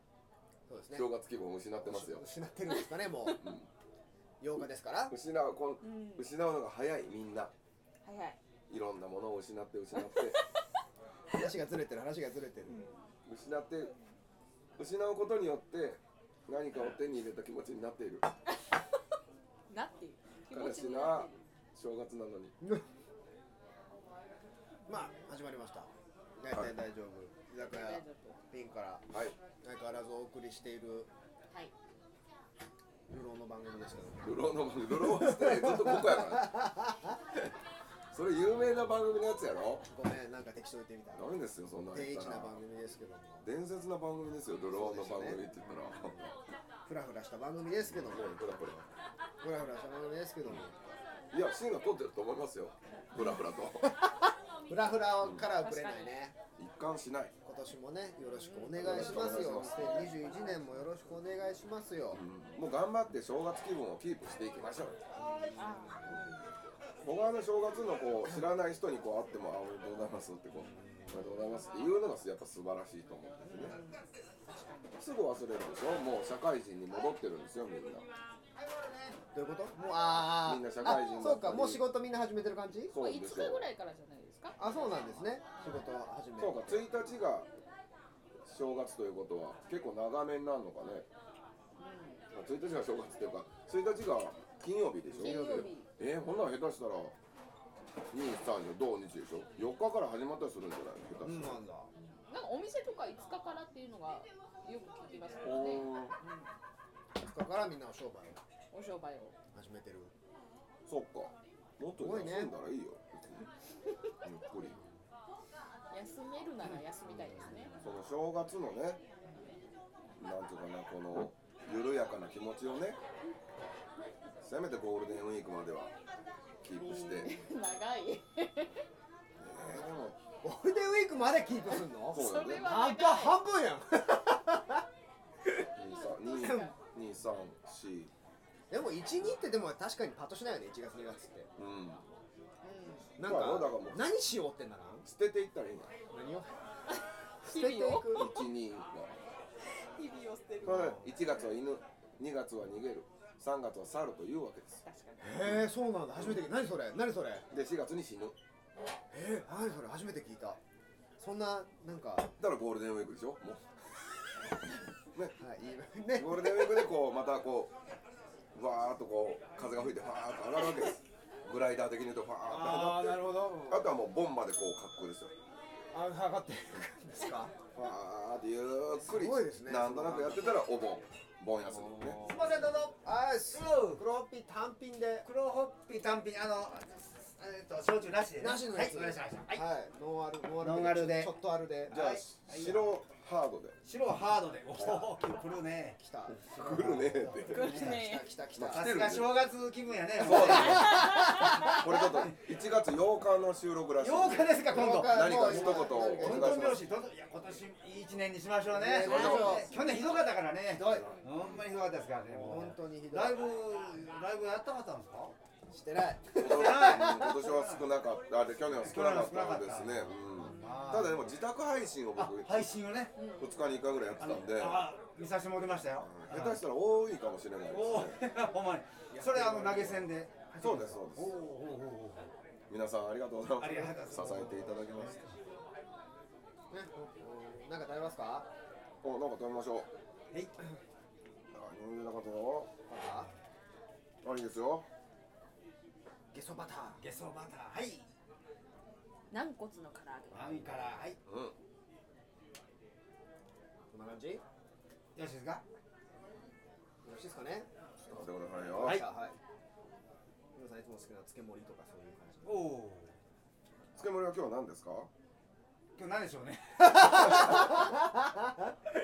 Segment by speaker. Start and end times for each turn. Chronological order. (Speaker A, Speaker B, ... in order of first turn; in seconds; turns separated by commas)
Speaker A: 0.7-1.1, Speaker B: 0.9-2.3, Speaker A: 1.8-3.5, Speaker B: 3.4-3.7, Speaker A: 4.4-5.2, Speaker B: 5.1-7.5, Speaker C: 5.8-6.3, Speaker C: 8.0-8.4, Speaker B: 8.7-10.4, Speaker C: 10.0-10.4, Speaker A: 11.3-12.8, Speaker C: 12.7-13.0, Speaker B: 13.3-13.9, Speaker B: 14.8-18.3, Speaker C: 19.7-21.4, Speaker B: 20.5-22.5, Speaker A: 24.9-29.1, Speaker C: 27.6-28.4, Speaker B: 29.1-29.4, Speaker A: 29.6-31.1, Speaker A: 33.1-34.4, Speaker B: 34.2-36.7, Speaker A: 35.2-36.9, Speaker B: 38.1-39.9, Speaker A: 39.9-41.3, Speaker B: 41.1-42.6, Speaker A: 41.9-43.4, Speaker B: 43.4-46.3, Speaker A: 44.7-46.3, Speaker A: 46.9-48.8, Speaker B: 47.9-48.9, Speaker A: 49.4-50.8, Speaker B: 51.3-53.9, Speaker A: 53.9-56.4, Speaker B: 55.2-55.5, Speaker C: 55.5-56.2, Speaker B: 56.6-57.3, Speaker A: 57.4-62.2, Speaker C: 58.3-60.9, Speaker B: 58.8-60.3, Speaker B: 62.1-65.0, Speaker A: 65.2-66.2, Speaker C: 65.6-66.4, Speaker B: 67.0-73.8, Speaker A: 70.5-71.2, Speaker C: 73.5-75.0, Speaker B: 75.0-78.1, Speaker D: 78.9-79.1, Speaker A: 79.3-83.0, Speaker B: 80.4-81.8, Speaker B: 82.9-83.7, Speaker C: 82.9-85.9, Speaker A: 84.6-86.9, Speaker B: 86.4-87.5, Speaker B: 88.5-91.1, Speaker C: 91.8-92.2, Speaker B: 92.3-97.2, Speaker A: 95.1-95.7, Speaker C: 95.2-95.9, Speaker B: 98.1-101.5, Speaker A: 101.2-101.9, Speaker C: 102.0-106.5, Speaker B: 105.4-106.2, Speaker A: 107.2-108.4, Speaker C: 108.7-109.3, Speaker A: 109.5-110.1, Speaker B: 110.9-113.5, Speaker A: 112.0-112.5, Speaker B: 114.2-114.8, Speaker C: 115.9-117.8, Speaker A: 117.0-117.9, Speaker B: 117.8-119.0, Speaker B: 120.2-123.0, Speaker B: 124.4-125.9, Speaker B: 126.6-127.3, Speaker C: 126.8-128.8, Speaker B: 129.4-130.2, Speaker A: 130.4-134.8, Speaker C: 132.0-133.4, Speaker B: 132.1-132.7, Speaker B: 135.8-138.1, Speaker C: 135.8-136.7, Speaker A: 136.3-136.7, Speaker A: 138.7-141.5, Speaker B: 141.6-142.0, Speaker C: 142.6-143.1, Speaker A: 143.2-145.1, Speaker B: 143.2-144.1, Speaker B: 145.1-145.9, Speaker A: 146.1-146.6, Speaker A: 147.4-148.4, Speaker C: 147.4-148.4, Speaker B: 148.1-149.2, Speaker C: 149.9-150.9, Speaker A: 150.6-151.1, Speaker B: 150.6-154.8, Speaker C: 154.8-155.4, Speaker A: 155.2-157.5, Speaker B: 156.2-156.5, Speaker B: 157.5-158.4, Speaker A: 159.1-160.6, Speaker A: 161.2-162.3, Speaker B: 162.4-163.7, Speaker A: 165.4-166.9, Speaker B: 166.2-167.7, Speaker B: 168.5-175.3, Speaker A: 172.4-174.0, Speaker A: 175.9-177.6, Speaker B: 177.7-182.2, Speaker A: 179.1-180.7, Speaker A: 181.7-185.3, Speaker D: 182.2-183.0, Speaker D: 183.5-184.0, Speaker D: 185.2-189.7, Speaker A: 188.4-192.1, Speaker D: 190.6-192.9, Speaker B: 191.9-193.8, Speaker D: 193.8-198.0, Speaker A: 194.8-195.1, Speaker A: 196.0-197.0, Speaker B: 196.5-197.7, Speaker C: 197.5-198.3, Speaker A: 197.6-199.0, Speaker B: 198.6-199.4, Speaker D: 198.6-202.5, Speaker B: 200.2-206.8, Speaker A: 200.2-201.8, Speaker C: 200.9-201.4, Speaker D: 204.0-215.3, Speaker A: 204.7-206.8, Speaker A: 208.7-209.9, Speaker B: 209.0-209.7, Speaker C: 209.1-209.5, Speaker A: 210.7-211.1, Speaker A: 212.3-213.4, Speaker A: 215.7-217.4, Speaker B: 216.4-222.7, Speaker D: 216.5-217.8, Speaker D: 218.7-221.3, Speaker C: 220.4-220.9, Speaker D: 222.2-223.2, Speaker C: 223.2-223.7, Speaker B: 223.3-224.9, Speaker D: 224.2-226.6, Speaker B: 226.0-228.2, Speaker D: 227.7-232.3, Speaker A: 229.1-230.1, Speaker B: 230.6-231.3, Speaker B: 232.7-235.3, Speaker D: 233.6-235.4, Speaker A: 236.7-238.5, Speaker B: 239.0-239.9, Speaker B: 241.5-242.7, Speaker A: 242.9-243.3, Speaker B: 244.2-244.9, Speaker A: 246.3-247.0, Speaker D: 247.0-248.1, Speaker C: 249.3-251.0, Speaker D: 250.3-251.2, Speaker B: 251.3-251.6, Speaker A: 253.9-254.4, Speaker D: 255.2-255.6, Speaker A: 257.0-259.4, Speaker B: 258.1-259.0, Speaker A: 260.6-262.6, Speaker D: 262.4-263.1, Speaker B: 264.0-265.1, Speaker D: 266.0-267.9, Speaker A: 266.8-268.7